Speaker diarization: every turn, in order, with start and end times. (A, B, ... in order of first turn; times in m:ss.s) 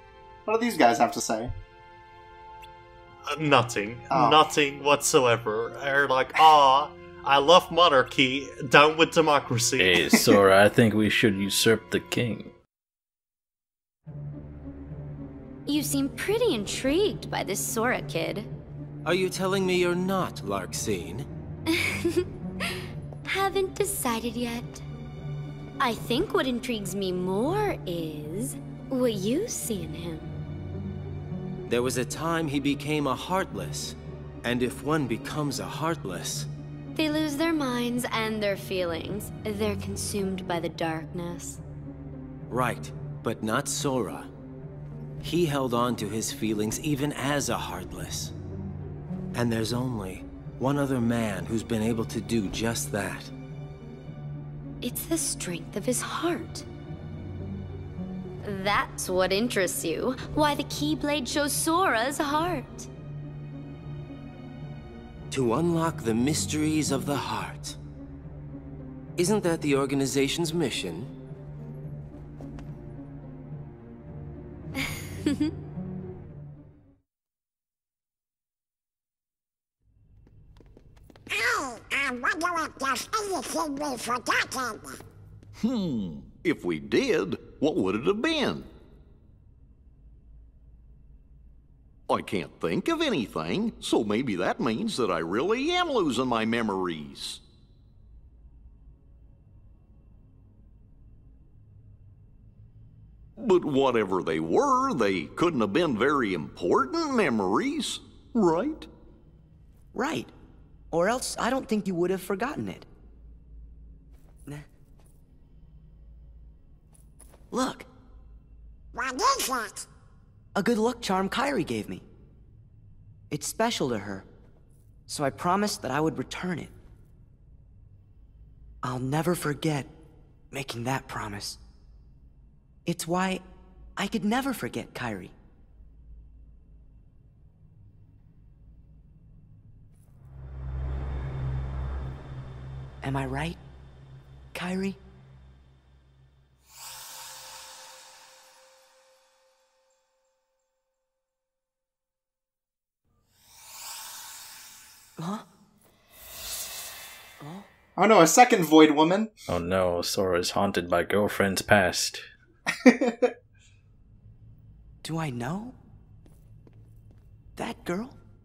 0:00.5-0:01.5 A
0:03.3-0:09.9 B
0:04.1-0:04.4 A
0:09.8-0:12.5 C
0:10.1-0:10.4 A
0:15.7-0:18.5 D
0:19.0-0:21.3 E
0:21.7-0:22.2 D
0:23.2-0:24.8 D
0:25.8-0:30.4 D
0:31.7-0:36.5 E
0:36.9-0:41.6 D
0:42.5-0:44.3 E
0:45.2-0:48.3 E
0:49.3-0:53.3 E
0:54.8-0:56.6 D
0:58.4-1:02.9 D
1:05.3-1:07.8 E
1:09.2-1:11.1 E
1:15.2-1:15.5 D
1:21.3-1:25.0 F
1:25.6-1:28.7 G
1:32.1-1:37.4 G
1:43.4-1:48.9 G
1:49.9-1:50.3 H
1:50.9-1:52.9 H
1:57.5-1:57.9 H
1:58.9-1:59.9 F
2:00.6-2:02.0 H
2:03.3-2:04.3 H
2:05.1-2:06.7 H
2:08.8-2:09.9 H
2:10.5-2:11.6 H
2:12.8-2:13.4 H
2:14.0-2:15.3 H
2:23.0-2:23.6 H
2:24.5-2:25.0 H
2:35.2-2:35.4 H
2:37.4-2:37.7 H
2:38.0-2:39.3 A
2:39.5-2:42.2 C
2:42.7-2:43.3 A
2:45.0-2:45.8 H
2:47.6-2:48.2 H